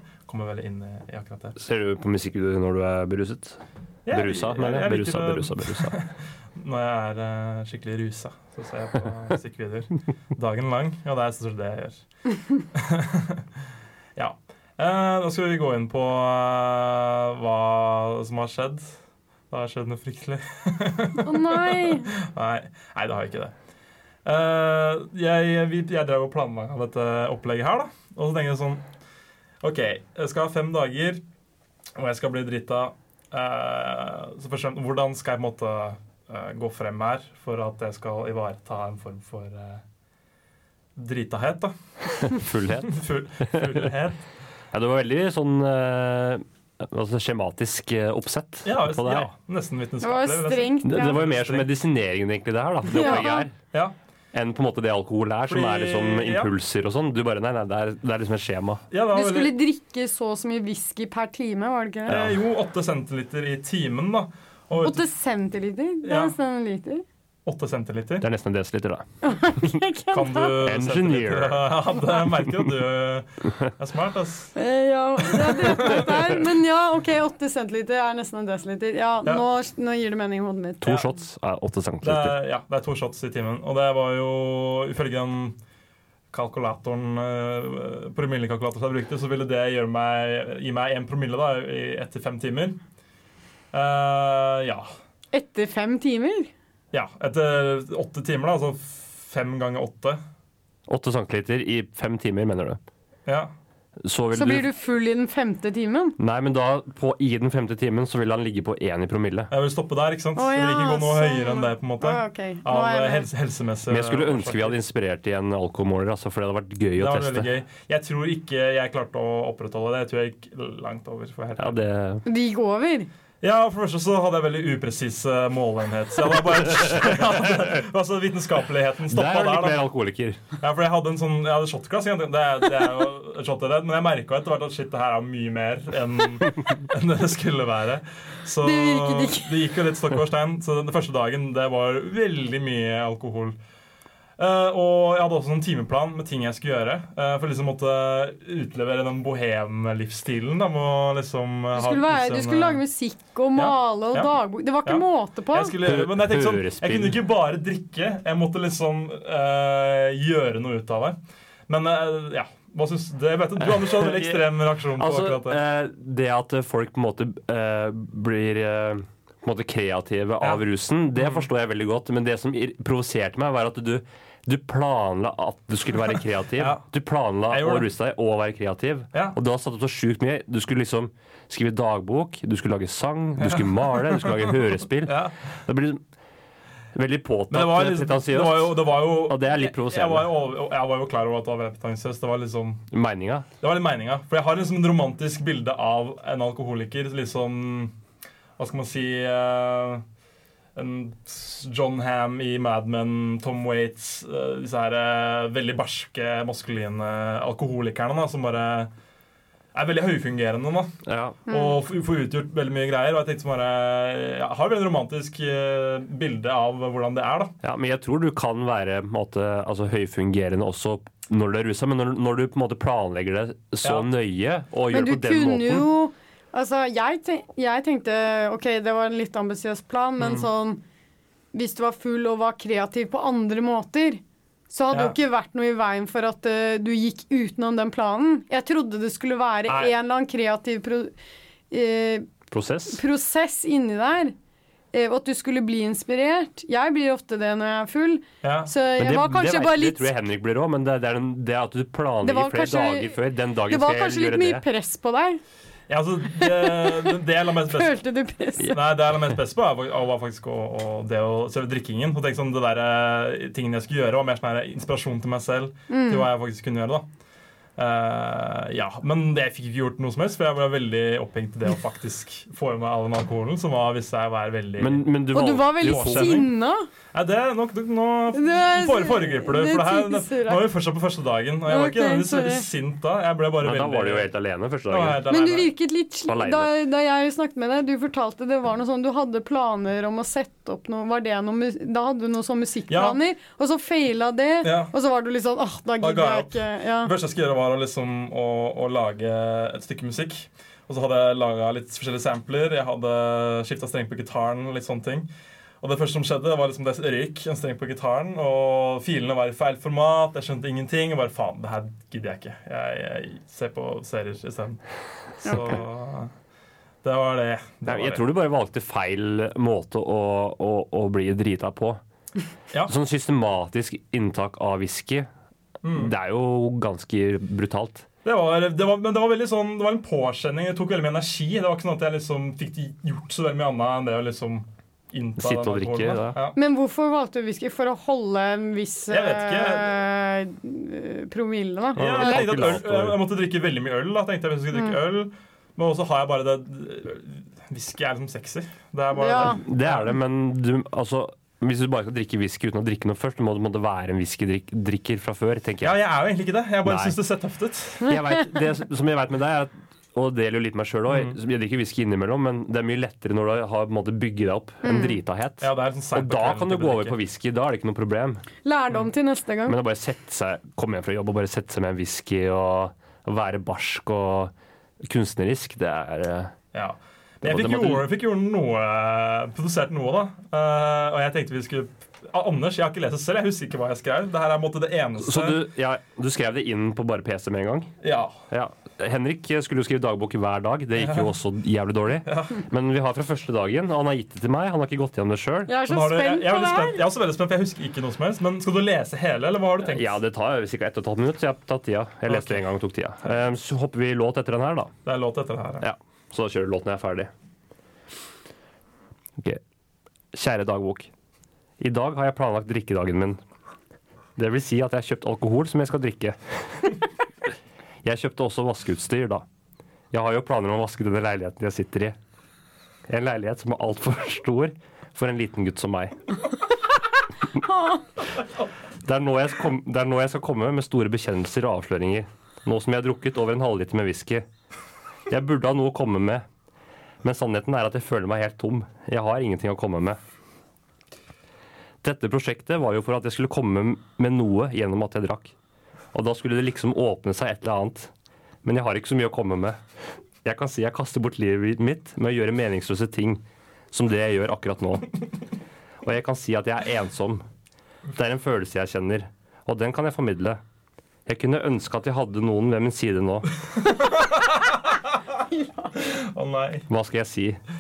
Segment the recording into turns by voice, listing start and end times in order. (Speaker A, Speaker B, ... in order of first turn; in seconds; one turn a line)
Speaker A: 0.3-1.6
Speaker B: 1.6-6.0
Speaker A: 4.1-12.0
Speaker A: 12.7-13.5
Speaker A: 14.2-18.9
Speaker A: 19.5-23.6
Speaker C: 21.2-22.1
Speaker A: 24.2-28.9
Speaker A: 29.6-31.2
Speaker A: 32.0-39.8
Speaker A: 41.0-41.8
Speaker B: 42.2-43.9
Speaker A: 42.9-44.2
Speaker B: 44.7-49.3
Speaker A: 48.6-51.7
Speaker C: 50.0-51.2
Speaker B: 50.8-53.5
Speaker C: 52.9-53.5
Speaker A: 53.0-54.0
Speaker B: 54.3-58.9
Speaker A: 55.5-56.5
Speaker A: 58.9-59.6
Speaker C: 59.1-62.2
Speaker A: 62.1-65.0
Speaker B: 62.1-62.3
Speaker C: 64.8-67.0
Speaker A: 66.0-66.3
Speaker A: 67.5-68.3
Speaker B: 68.2-69.0
Speaker C: 69.2-70.6
Speaker A: 70.1-74.5
Speaker B: 70.6-71.7
Speaker C: 74.6-81.0
Speaker A: 75.2-76.4
Speaker B: 80.8-82.4
Speaker A: 82.0-85.6
Speaker A: 86.3-92.8
Speaker A: 93.7-94.9
Speaker C: 95.3-96.5
Speaker A: 96.9-100.2
Speaker B: 100.9-102.8
Speaker A: 103.3-103.5
Speaker B: 104.0-104.7
Speaker C: 104.3-106.2
Speaker B: 106.2-109.5
Speaker A: 109.5-114.8
Speaker C: 110.4-113.3
Speaker B: 113.9-117.5
Speaker A: 117.0-121.8
Speaker B: 121.6-122.2
Speaker C: 122.3-123.1
Speaker A: 123.4-129.8
Speaker B: 129.1-130.4
Speaker A: 130.6-143.6
Speaker C: 138.6-139.5
Speaker A: 144.4-152.8
Speaker C: 151.7-155.8
Speaker A: 153.6-154.3
Speaker A: 154.8-165.6
Speaker B: 155.8-157.2
Speaker B: 163.7-186.0
Speaker A: 171.2-171.5
Speaker A: 176.6-176.8
Speaker A: 177.5-177.9
Speaker A: 183.4-185.3
Speaker B: 186.9-190.3
Speaker A: 187.5-192.8
Speaker B: 192.9-193.5
Speaker A: 193.6-197.9
Speaker A: 198.6-200.0
Speaker A: 200.8-208.9
Speaker A: 209.7-210.9
Speaker B: 211.1-211.4
Speaker C: 211.5-211.8
Speaker A: 211.5-217.6
Speaker B: 217.6-225.9
Speaker C: 224.9-230.8
Speaker A: 230.2-230.5
Speaker C: 231.5-241.1
Speaker A: 239.7-239.9
Speaker C: 241.7-242.3
Speaker B: 242.5-243.0
Speaker C: 242.9-244.3
Speaker C: 244.9-250.1
Speaker A: 248.4-248.7
Speaker B: 249.0-254.7
Speaker C: 252.2-253.2
Speaker C: 253.7-255.4
Speaker A: 255.9-257.9
Speaker C: 256.4-258.8
Speaker A: 258.6-267.1
Speaker C: 265.9-266.3
Speaker A: 267.8-275.1
Speaker B: 274.8-276.5
Speaker C: 275.3-276.9
Speaker A: 275.8-276.5
Speaker A: 277.1-284.3
Speaker C: 278.3-280.7
Speaker C: 281.7-282.6
Speaker B: 283.6-285.2
Speaker A: 284.9-285.7
Speaker C: 285.3-297.1
Speaker B: 286.2-286.7
Speaker A: 292.9-293.2
Speaker A: 294.6-294.9
Speaker A: 296.0-305.3
Speaker A: 305.8-314.8
Speaker A: 315.4-316.3
Speaker C: 315.4-315.8
Speaker A: 317.0-318.3
Speaker B: 317.9-322.0
Speaker B: 322.9-325.3
Speaker A: 325.8-326.1
Speaker B: 325.9-328.1
Speaker A: 328.2-336.6
Speaker B: 335.4-336.4
Speaker C: 336.6-342.7
Speaker A: 339.1-340.0
Speaker B: 342.0-343.2
Speaker A: 342.0-350.1
Speaker C: 349.1-349.6
Speaker B: 349.4-356.0
Speaker A: 355.8-358.1
Speaker B: 356.9-357.2
Speaker B: 358.0-368.4
Speaker A: 361.1-361.4
Speaker C: 364.8-365.2
Speaker A: 365.6-367.2
Speaker C: 368.6-369.8
Speaker B: 369.7-374.5
Speaker B: 375.0-376.6
Speaker A: 376.7-385.7
Speaker B: 377.4-378.1
Speaker B: 385.2-387.9
Speaker A: 388.0-388.4
Speaker B: 388.5-395.7
Speaker A: 391.0-391.3
Speaker A: 392.3-392.6
Speaker C: 395.7-397.0
Speaker A: 395.9-400.1
Speaker B: 399.8-404.9
Speaker A: 402.3-402.6
Speaker A: 405.1-405.9
Speaker B: 405.8-407.3
Speaker B: 410.3-411.1
Speaker B: 411.8-413.4
Speaker B: 414.4-417.0
Speaker B: 418.0-419.4
Speaker B: 420.1-422.2
Speaker B: 423.1-426.2
Speaker B: 429.1-434.4
Speaker B: 435.3-436.4
Speaker B: 437.2-440.2
Speaker B: 442.0-445.5
Speaker B: 446.1-448.1
Speaker B: 448.6-449.8
Speaker B: 450.4-455.1
Speaker B: 456.0-457.4
Speaker B: 458.1-460.6
Speaker B: 461.3-463.5
Speaker A: 463.8-465.1
Speaker A: 465.9-466.9
Speaker B: 466.9-467.6